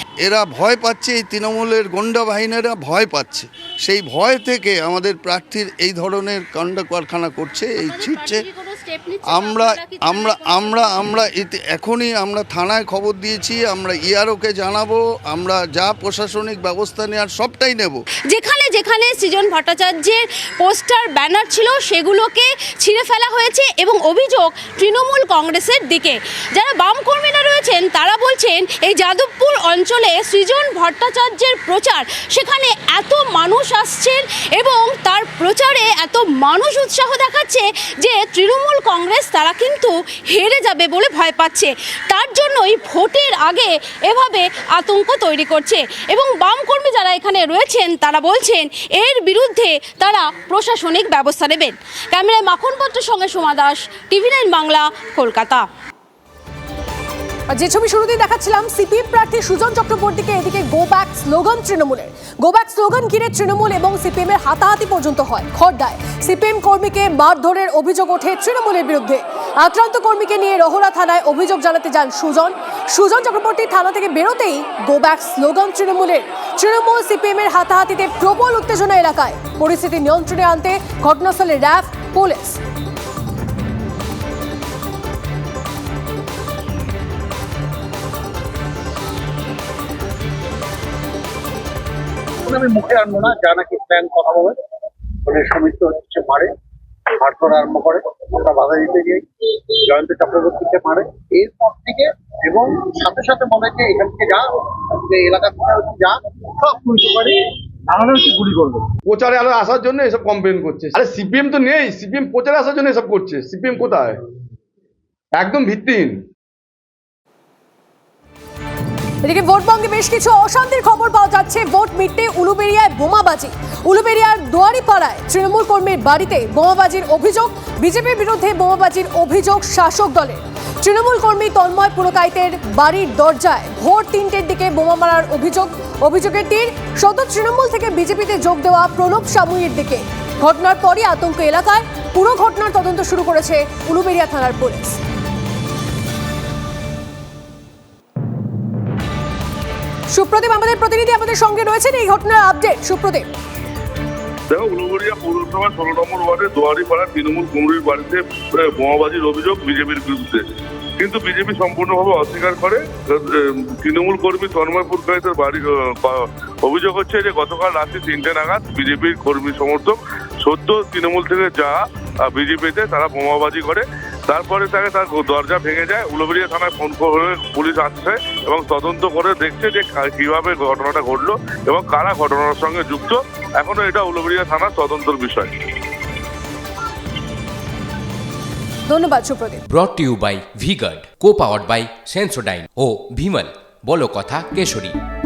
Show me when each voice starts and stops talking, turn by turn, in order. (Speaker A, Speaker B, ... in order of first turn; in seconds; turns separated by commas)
Speaker A: 0.2-8.4, Speaker B: 7.8-11.1, Speaker A: 9.3-18.0, Speaker B: 18.3-55.6, Speaker C: 57.5-82.6, Speaker D: 92.4-94.7, Speaker D: 95.2-96.5, Speaker D: 97.1-107.4, Speaker D: 107.9-108.9, Speaker E: 109.0-114.2, Speaker E: 115.3-116.2, Speaker C: 119.2-145.0, Speaker C: 150.1-153.3, Speaker F: 154.5-185.6, Speaker C: 188.9-189.6, Speaker G: 189.7-194.9